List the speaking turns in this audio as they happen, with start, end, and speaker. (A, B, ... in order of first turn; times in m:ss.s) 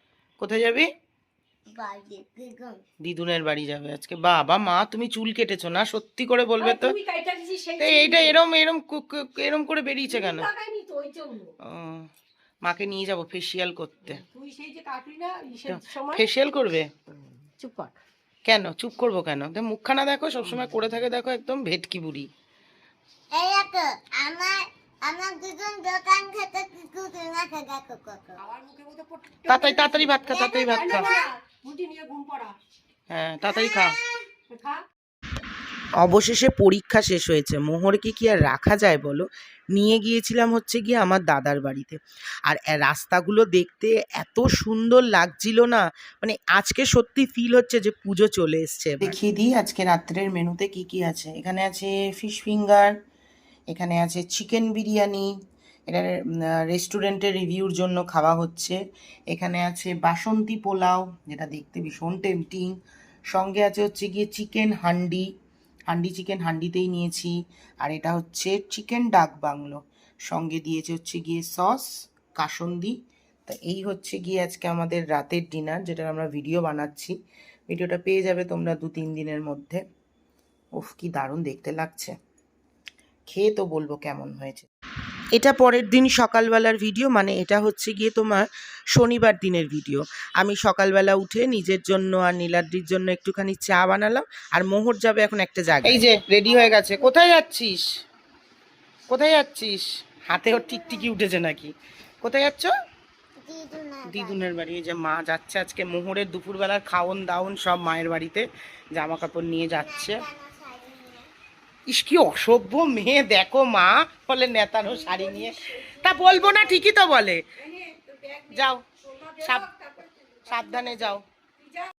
0:00.4-0:00.9 A
0:01.7-0:02.8 B
0:03.0-0:07.0 A
0:06.6-0:08.4 C
0:07.8-0:10.5 A
0:10.1-0:11.5 C
0:11.6-0:12.1 A
0:12.6-0:14.2 A
0:14.1-0:16.3 C
0:15.7-0:17.0 A
0:17.6-0:18.0 C
0:18.4-0:22.3 A
0:23.3-0:28.4 B
0:28.4-0:32.6 C
0:29.4-0:31.1 A
0:30.3-0:31.3 B
0:33.1-0:34.0 A
0:33.4-0:34.3 B
0:34.5-0:34.8 C
0:36.0-0:52.9 A
0:53.7-0:55.4 A
0:55.9-0:58.8 A
0:59.3-1:02.8 A
1:03.3-1:05.3 A
1:05.9-1:17.1 A
1:17.7-1:19.8 A
1:20.8-1:22.1 A
1:23.3-1:24.7 A
1:25.3-1:37.9 A
1:39.1-1:42.7 A
1:40.5-1:41.1 B
1:43.4-1:44.4 B
1:44.0-1:50.2 A
1:49.8-1:51.3 B
1:51.9-1:57.5 A
1:55.4-1:56.7 C
1:57.7-2:01.1 C
1:58.5-1:58.8 A
1:59.4-1:59.7 A
2:00.4-2:01.2 A